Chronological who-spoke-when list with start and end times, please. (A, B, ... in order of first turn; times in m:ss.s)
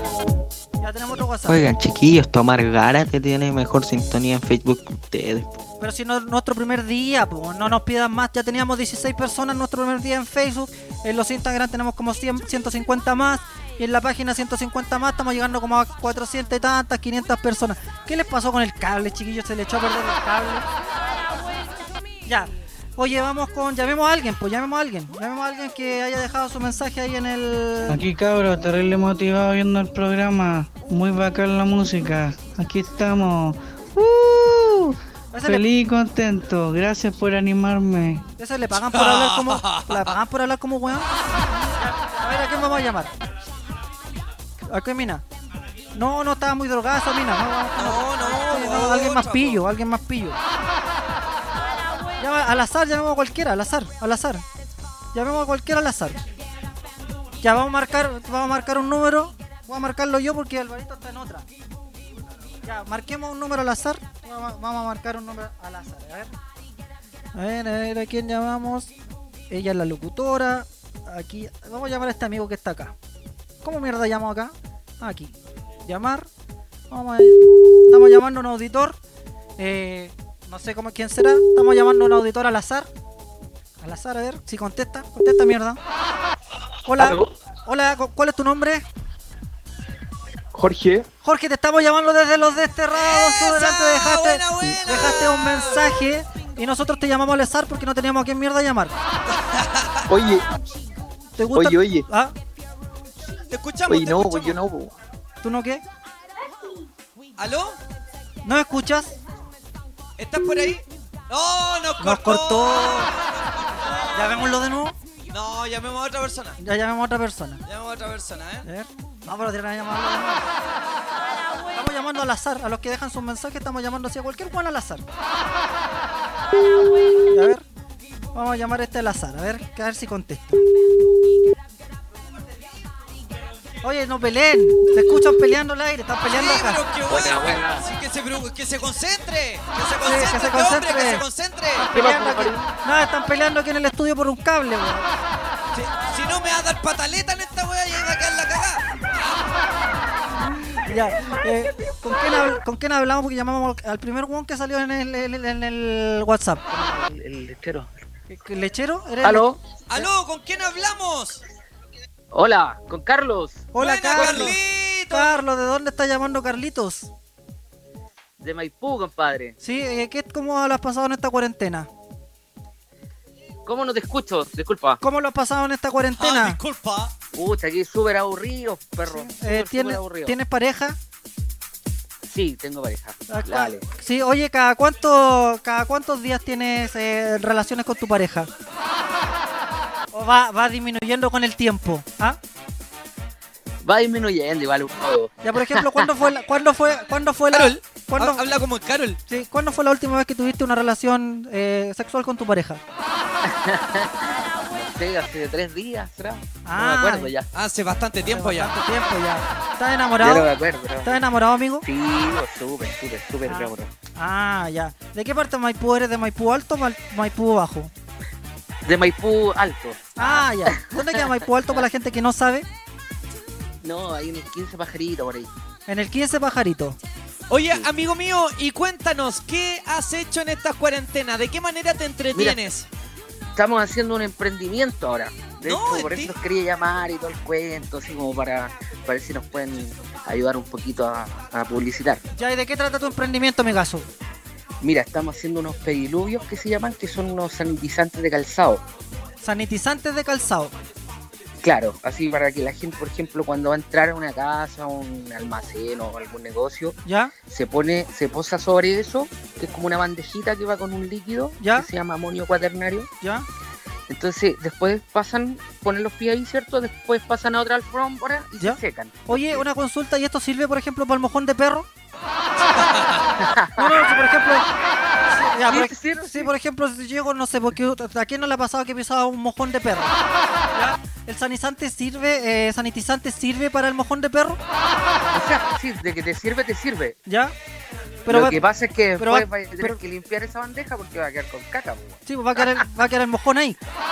0:00.8-0:01.7 A
0:01.5-0:05.6 B
0:05.8-0:20.7 A
0:22.3-0:28.0 A
0:28.2-0:31.8 C
0:32.4-0:33.4 C
0:35.3-0:35.7 A
0:35.8-0:38.1 C
0:38.4-0:41.1 A
0:38.9-0:40.1 D
0:41.8-0:43.1 A
0:44.7-0:45.2 A
0:45.9-0:50.4 A
0:47.8-0:49.6 D
0:52.2-0:54.4 A
0:55.1-0:56.2 A
0:57.4-1:01.4 A
1:02.6-1:06.3 A
1:07.4-1:08.9 A
1:09.5-1:13.0 A
1:13.6-1:16.3 A
1:16.9-1:19.0 A
1:19.6-1:22.9 A
1:23.8-1:25.8 A
1:26.9-1:28.8 A
1:31.2-1:39.0 A
1:32.9-1:35.8 D
1:39.3-1:40.0 D
1:41.4-1:42.4 A
1:43.5-1:44.6 D
1:45.4-1:45.8 A
1:47.4-1:47.8 D
1:48.4-1:49.2 A
1:50.2-1:54.4 D
1:52.0-1:53.1 A
1:54.1-1:55.0 A
1:55.3-1:56.6 D
1:56.6-1:57.6 A
1:57.7-1:58.7 D
1:58.6-2:00.4 A
2:01.7-2:05.1 A
2:07.3-2:07.6 A
2:08.3-2:10.6 A
2:13.8-2:16.8 A
2:16.3-2:21.9 D
2:17.1-2:17.8 E
2:20.0-2:21.2 A
2:21.8-2:25.1 A
2:21.9-2:22.6 E
2:25.7-2:29.0 D
2:30.8-2:36.6 A
2:36.7-2:37.9 E
2:38.3-2:39.4 A
2:39.2-2:39.6 E
2:39.9-2:41.4 D
2:42.3-2:44.5 E
2:43.7-2:44.6 A
2:43.8-2:45.4 D
2:45.1-2:47.1 A
2:48.4-2:49.6 E
2:49.6-2:51.9 A
2:53.7-2:55.0 E
2:55.0-2:56.6 A
2:56.2-2:57.1 D
2:57.4-3:00.4 E
2:59.0-3:01.0 A
3:02.3-3:03.8 E
3:03.3-3:08.5 A
3:10.1-3:12.4 A
3:13.8-3:16.1 E
3:15.4-3:18.4 A
3:17.5-3:19.2 D
3:19.3-3:22.8 A
3:23.4-3:27.5 E
3:26.6-3:27.3 A
3:27.5-3:28.8 D
3:28.3-3:30.5 A
3:30.2-3:31.2 E
3:31.0-3:31.9 A
3:31.8-3:33.9 E
3:33.5-3:37.9 A
3:38.8-3:41.8 E
3:40.2-3:42.7 A
3:43.8-3:45.5 E
3:45.9-3:47.0 A
3:47.5-3:52.9 D
3:52.3-3:52.6 E
3:53.6-4:02.2 E
3:55.6-3:56.3 D
4:02.4-4:04.1 A
4:04.8-4:08.8 E
4:09.4-4:10.8 A
4:11.6-4:17.0 E
4:17.1-4:17.3 A
4:17.5-4:23.1 E
4:21.6-4:21.9 A
4:24.1-4:29.6 E
4:28.6-4:31.9 A
4:32.7-4:33.3 D
4:33.4-4:34.0 E
4:33.8-4:34.7 A
4:35.3-4:40.2 A
4:35.7-4:36.5 E
4:40.7-4:44.6 A
4:45.3-4:47.2 E
4:47.3-4:47.6 A
4:48.3-4:48.6 A
4:48.3-4:52.8 E
4:49.2-4:50.0 A
4:52.3-4:53.8 A